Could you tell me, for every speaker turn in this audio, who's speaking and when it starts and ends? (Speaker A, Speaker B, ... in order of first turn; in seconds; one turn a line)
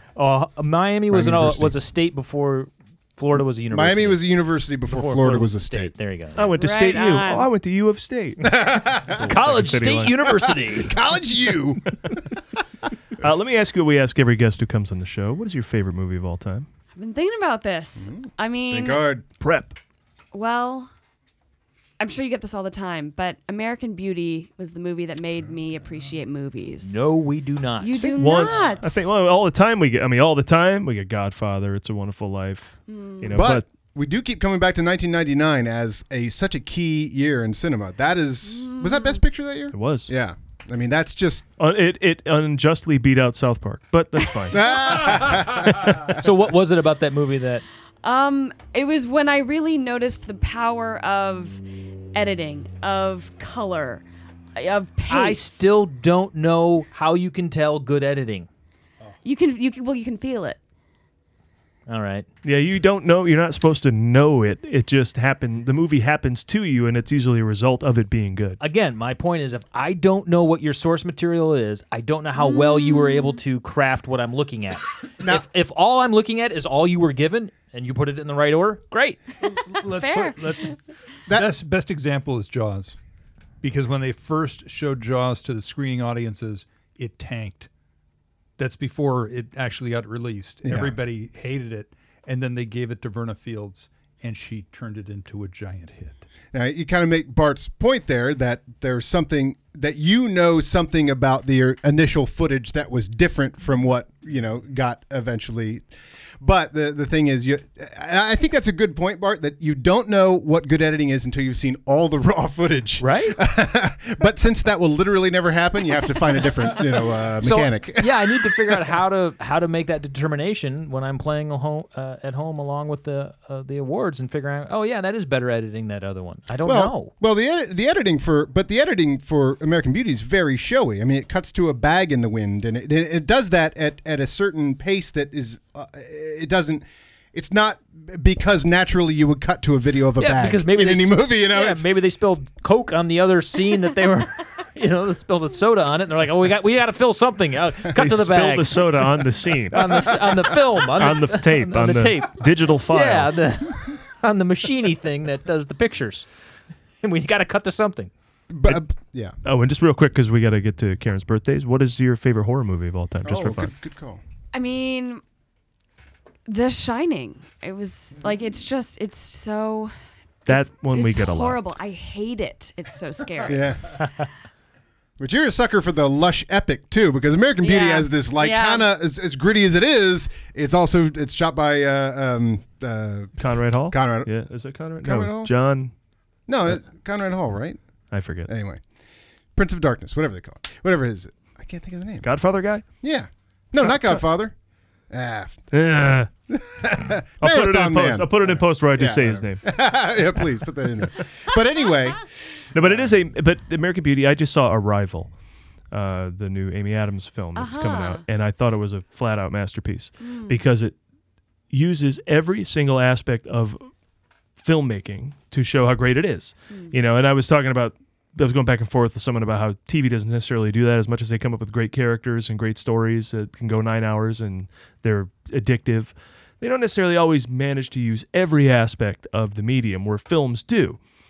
Speaker A: 0.1-4.2
Speaker B: 1.1-1.8
Speaker B: 3.7-5.9
Speaker A: 4.9-6.5
Speaker C: 6.3-10.4
Speaker D: 6.5-7.5
Speaker B: 8.4-9.3
Speaker A: 9.2-10.9
Speaker B: 10.8-11.9
Speaker C: 13.2-16.7
Speaker D: 16.9-19.1
Speaker B: 18.0-19.2
Speaker C: 19.4-19.8
Speaker D: 20.3-20.9
Speaker D: 22.0-27.1
Speaker A: 26.8-28.8
Speaker D: 27.8-29.0
Speaker C: 28.1-33.6
Speaker D: 32.9-33.5
Speaker B: 33.3-41.5
Speaker D: 38.4-39.2
Speaker C: 39.7-40.1
Speaker C: 41.6-44.6
Speaker B: 44.5-46.1
Speaker A: 46.1-47.6
Speaker D: 48.0-51.6
Speaker D: 52.1-54.0
Speaker D: 54.5-55.6
Speaker A: 55.1-58.5
Speaker D: 59.2-60.6
Speaker A: 61.9-62.3
Speaker C: 62.4-68.6
Speaker A: 68.6-79.2
Speaker D: 72.3-73.4
Speaker D: 79.4-80.7
Speaker E: 79.8-80.8
Speaker B: 81.3-81.5
Speaker E: 81.3-83.0
Speaker E: 83.6-87.7
Speaker E: 88.6-96.2
Speaker B: 90.6-91.0
Speaker B: 96.5-105.9
Speaker B: 106.4-118.8
Speaker A: 113.0-113.4
Speaker A: 117.4-127.1
Speaker B: 126.6-141.9
Speaker A: 140.2-148.8
Speaker C: 147.9-150.2
Speaker A: 149.7-156.3
Speaker C: 150.8-153.3
Speaker A: 157.0-158.1
Speaker B: 158.5-159.3
Speaker C: 159.4-163.7
Speaker B: 163.2-164.2
Speaker D: 164.5-165.2
Speaker D: 166.5-169.9
Speaker D: 170.4-173.7
Speaker C: 170.4-171.6
Speaker B: 173.4-173.8
Speaker B: 175.2-184.3
Speaker D: 177.6-178.9
Speaker C: 183.4-185.9
Speaker B: 185.0-185.5
Speaker B: 186.5-187.8
Speaker C: 188.1-188.5
Speaker B: 188.4-188.8
Speaker B: 189.5-192.3
Speaker C: 192.2-192.8
Speaker B: 193.0-194.5
Speaker B: 195.1-202.2
Speaker C: 195.7-196.3
Speaker C: 197.4-199.7
Speaker C: 202.7-205.3
Speaker B: 202.7-203.1
Speaker C: 205.9-210.9
Speaker D: 207.6-208.2
Speaker D: 210.2-210.6
Speaker C: 211.7-213.9
Speaker C: 214.6-231.0
Speaker D: 216.7-217.0